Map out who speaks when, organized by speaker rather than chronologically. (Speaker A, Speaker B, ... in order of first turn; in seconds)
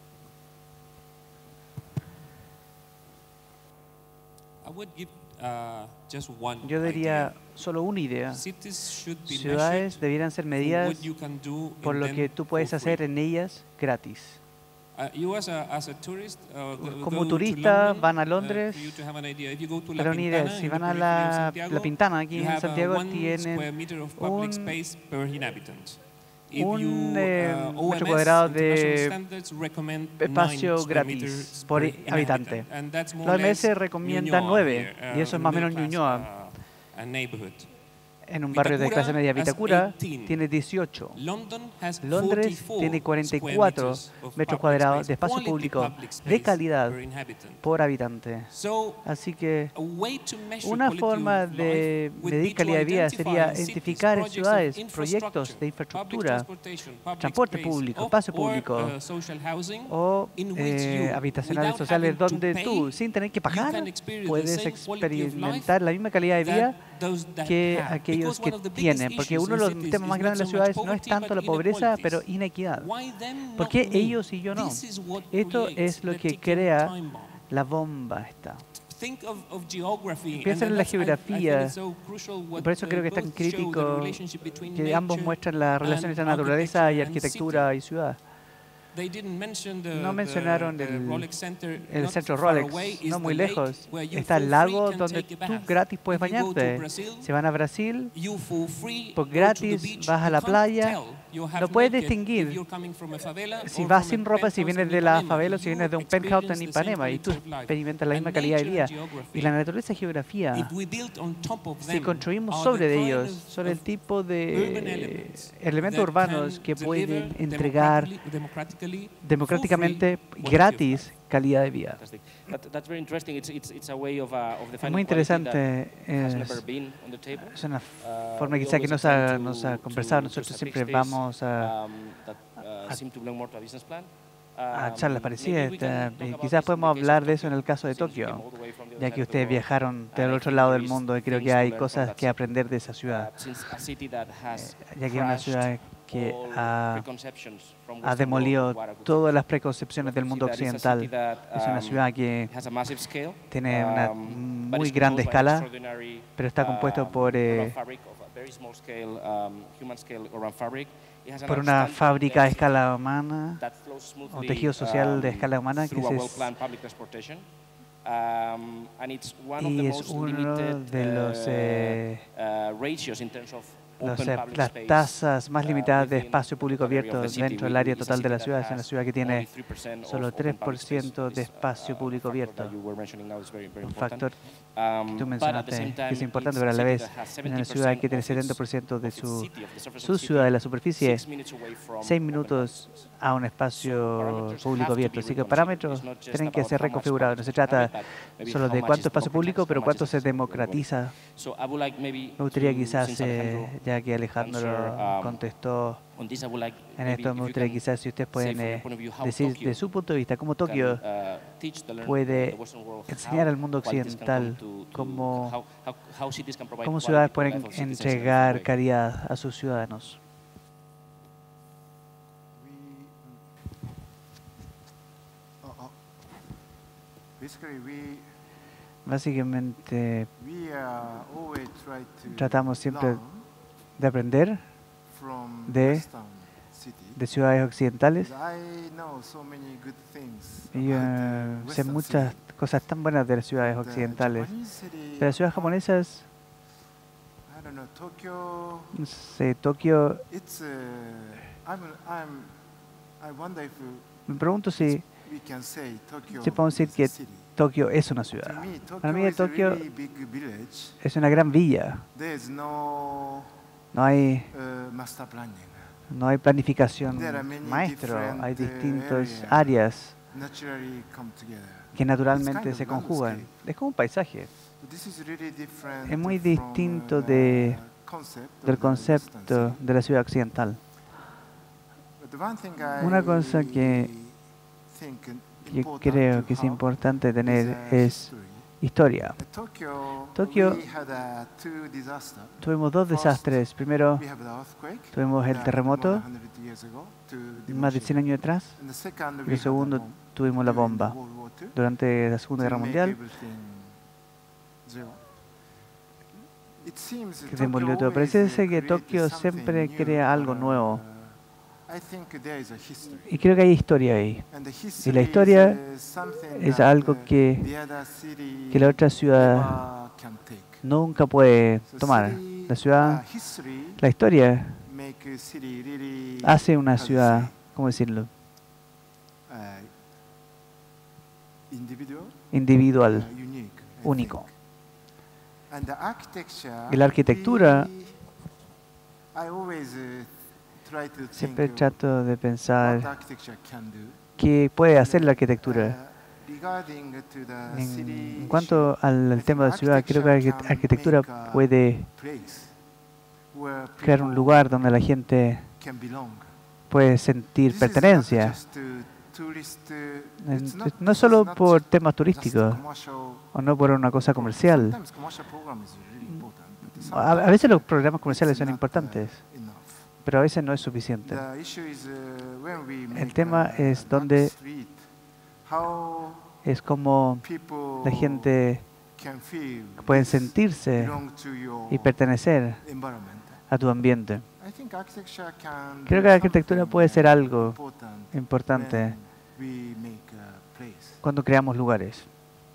Speaker A: 4.6-7.4, 8.3-13.1, 14.9-37.9, 38.5-40.5, 41.1-47.6, 48.5-49.1, 49.7-65.8, 66.4-77.5, 78.8-87.8, 88.9-97.3, 98.1-109.6, 110.5-121.1
Speaker B: 6.6-8.7, 9.2-11.2, 11.8-14.4, 16.8-19.1, 20.0-24.8, 26.6-29.2, 30.2-36.4, 38.2-41.2, 42.0-47.1, 47.6-49.7, 50.6-56.6, 57.2-59.0, 59.9-66.9, 67.4-78.7, 80.4-88.3, 89.9-98.3, 99.2-102.7, 103.6-110.7, 111.8-118.2, 119.2-122.0, 124.8-132.0, 134.7-143.7, 144.5-147.1, 148.0-157.8, 161.5-163.6, 164.3-166.5, 169.6-172.3, 174.0-182.8, 183.8-201.2, 202.4-206.1, 207.0-211.0, 212.0-215.6, 216.8-220.2, 229.1-230.3, 232.3-233.2, 234.0-234.8, 235.7-236.1, 237.2-238.3, 240.7-246.3, 248.9-250.2, 254.3-255.1, 256.4-259.8, 261.0-262.1, 263.9-264.5, 266.1-270.2, 271.9-274.5, 276.1-277.8, 278.6-280.9, 283.0-284.1, 285.7-289.6, 290.3-290.8, 292.6-294.3, 295.1-296.2, 297.7-303.2, 307.5-311.0, 313.2-315.8, 316.5-317.8, 318.7-319.9, 320.8-324.9, 326.4-328.3, 332.5-333.5, 334.0-334.5, 336.9-337.9, 341.3-343.1, 344.4-346.0, 347.7-352.1, 354.0-355.7, 356.9-358.6, 360.4-362.8, 363.5-365.0, 366.3-369.4, 370.2-371.4, 373.1-374.5, 376.6-377.5, 378.0-378.9, 380.1-381.3, 381.9-382.9, 383.7-384.5, 386.1-387.8, 388.3-389.2, 391.2-392.3
Speaker C: 122.0-162.9, 163.6-193.1, 193.8-205.5, 206.1-209.8, 210.6-218.7
Speaker D: 222.5-223.5, 225.6-226.0, 227.4-228.3, 230.4-233.4, 235.1-237.2, 238.2-242.5, 243.6-246.0, 247.5-249.0, 250.3-252.6, 253.2-257.6, 258.3-261.0, 262.1-263.6, 264.5-266.0, 267.1-273.5, 274.8-279.8, 282.2-288.8, 289.4-301.8, 302.6-304.0, 304.8-305.2, 306.8-313.4, 314.5-320.9, 321.9-324.1, 324.8-327.6, 329.5-330.0, 331.7-332.5, 333.0-334.6, 335.7-338.2, 339.3-342.1, 342.8-352.8, 353.5-354.7, 355.8-356.5, 357.6-363.6, 364.3-370.1, 371.2-375.1, 375.6-376.6, 377.4-383.7, 384.6-391.2